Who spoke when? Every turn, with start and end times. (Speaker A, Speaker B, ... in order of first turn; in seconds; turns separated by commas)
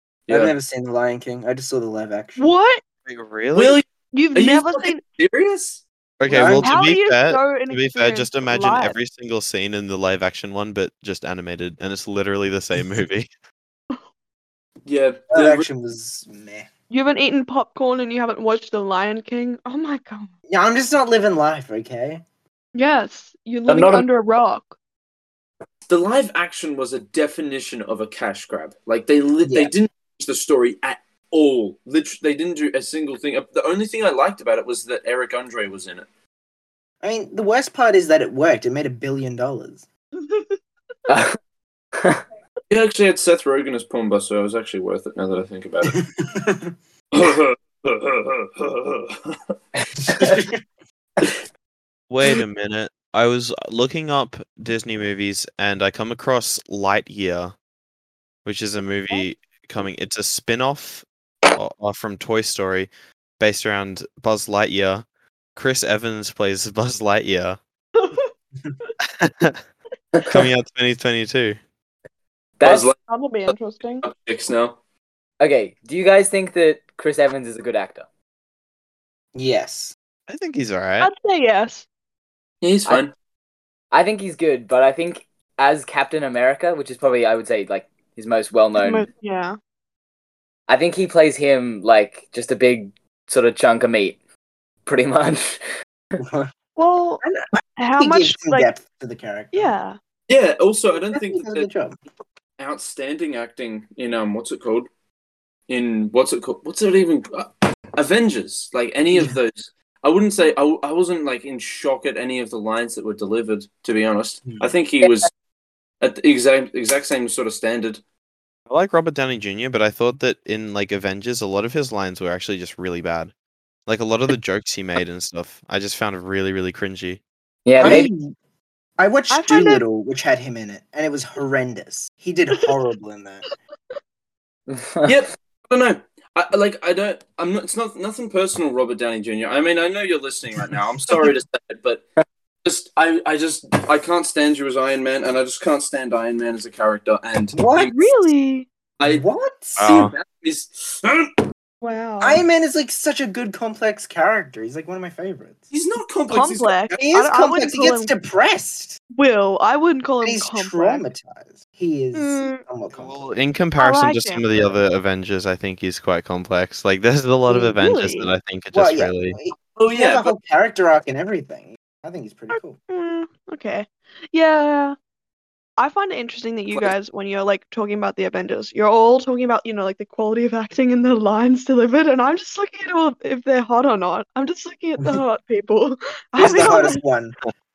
Speaker A: 0.3-0.5, Speaker B: 0.3-2.5, Speaker C: 2.4-2.8, Speaker D: 3.1-3.8, Speaker A: 3.5-5.8, Speaker C: 4.1-5.0, Speaker D: 6.2-13.3, Speaker B: 6.3-6.7, Speaker C: 6.5-9.0, Speaker A: 14.9-15.7, Speaker B: 15.3-16.7, Speaker C: 16.9-20.3, Speaker B: 20.5-22.2, Speaker C: 22.7-24.8, Speaker E: 23.7-24.1, Speaker A: 25.9-36.1, Speaker B: 29.4-29.7, Speaker B: 37.0-39.8, Speaker C: 40.2-40.6, Speaker E: 41.1-41.4, Speaker A: 42.7-46.0, Speaker B: 46.2-46.7, Speaker A: 47.1-49.4, Speaker B: 50.1-50.5, Speaker D: 52.1-57.5, Speaker D: 58.5-67.6, Speaker C: 68.0-68.3, Speaker D: 69.0-69.6, Speaker D: 70.2-71.6, Speaker E: 72.6-72.9, Speaker A: 72.6-73.0, Speaker C: 73.1-74.1, Speaker A: 73.5-74.8, Speaker E: 75.4-78.0, Speaker B: 79.3-80.0, Speaker D: 80.3-81.1, Speaker C: 81.0-81.8, Speaker A: 82.6-83.1, Speaker E: 83.9-89.1, Speaker C: 88.8-89.6, Speaker E: 90.7-94.2, Speaker E: 94.8-95.6, Speaker B: 96.2-96.5, Speaker C: 96.8-97.3, Speaker C: 97.8-98.7, Speaker B: 98.0-99.7, Speaker C: 99.5-100.0, Speaker A: 100.3-101.7, Speaker B: 101.0-102.0, Speaker A: 102.6-104.9, Speaker A: 105.7-115.3, Speaker A: 116.0-118.0, Speaker D: 118.7-123.3, Speaker D: 123.9-127.2, Speaker E: 127.7-128.1, Speaker B: 127.8-128.3, Speaker B: 129.0-133.4, Speaker C: 129.3-129.8, Speaker E: 134.7-135.2, Speaker A: 135.1-142.0, Speaker A: 142.6-148.1, Speaker B: 147.6-147.9, Speaker C: 147.8-148.7, Speaker A: 149.0-149.2, Speaker B: 149.0-149.8, Speaker D: 149.8-150.1, Speaker A: 149.8-151.4, Speaker C: 151.8-152.4, Speaker B: 152.2-155.6, Speaker A: 155.7-156.8, Speaker C: 156.3-158.1, Speaker B: 156.9-159.0, Speaker C: 159.2-161.0, Speaker B: 160.2-163.2, Speaker C: 162.2-162.6, Speaker D: 163.0-169.4, Speaker C: 163.8-164.6, Speaker C: 167.5-168.3, Speaker B: 168.7-172.8, Speaker A: 169.8-170.3, Speaker C: 172.5-175.0, Speaker C: 175.8-187.0, Speaker B: 186.4-187.4